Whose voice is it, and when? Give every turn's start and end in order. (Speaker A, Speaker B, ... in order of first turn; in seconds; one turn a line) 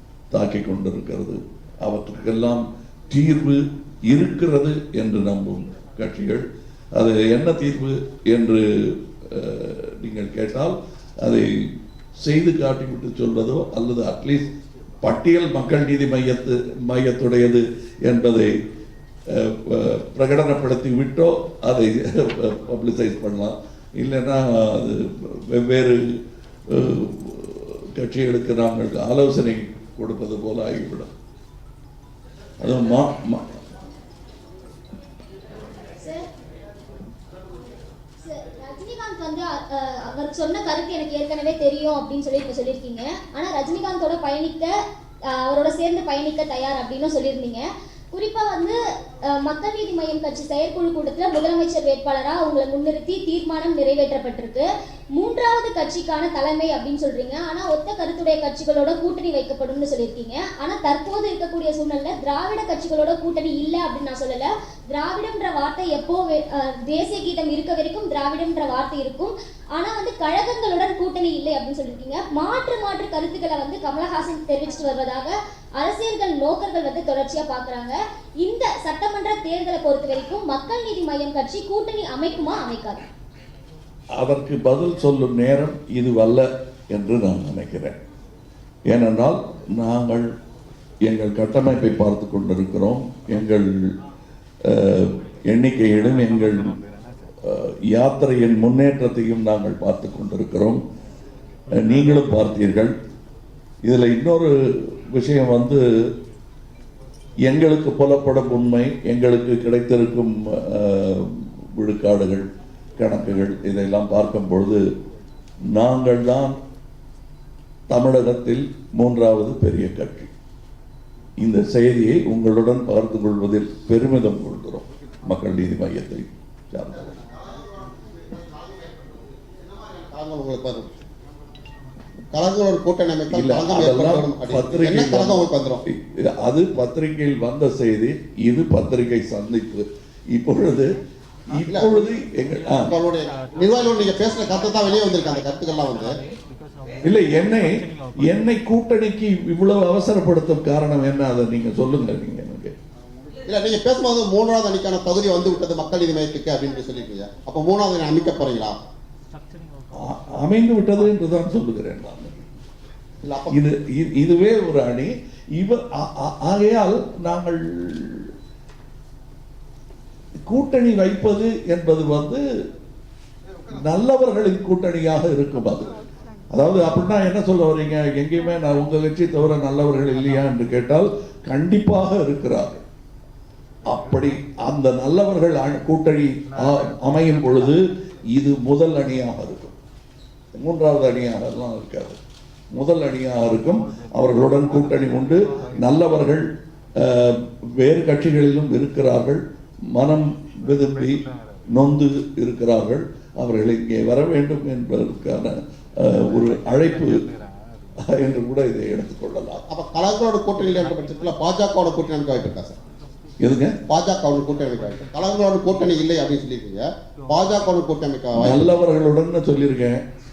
Speaker A: 0.3-14.5
Speaker A: 15.0-18.5
Speaker A: 19.3-26.2
Speaker A: 26.7-31.1
Speaker A: 32.6-33.5
Speaker B: 35.9-36.3
Speaker B: 38.2-83.1
Speaker A: 84.1-88.0
Speaker A: 88.9-90.3
Speaker A: 91.0-93.7
Speaker A: 94.7-96.8
Speaker A: 97.4-100.8
Speaker A: 101.7-102.9
Speaker A: 103.8-105.8
Speaker A: 107.4-112.5
Speaker A: 113.0-114.8
Speaker A: 115.7-116.6
Speaker A: 117.9-120.3
Speaker A: 121.4-127.1
Speaker C: 126.9-130.9
Speaker C: 132.3-135.8
Speaker A: 133.3-140.9
Speaker A: 141.5-143.0
Speaker C: 141.6-142.1
Speaker C: 142.8-146.2
Speaker A: 147.0-152.7
Speaker C: 153.4-158.8
Speaker A: 159.9-162.4
Speaker C: 163.2-163.6
Speaker A: 163.5-168.3
Speaker A: 170.4-172.4
Speaker A: 173.7-175.9
Speaker A: 176.5-182.8
Speaker A: 183.8-189.8
Speaker A: 190.6-192.2
Speaker A: 192.7-207.2
Speaker A: 208.0-209.6
Speaker C: 209.7-212.8
Speaker A: 213.4-213.8
Speaker C: 213.9-218.7
Speaker A: 218.3-220.0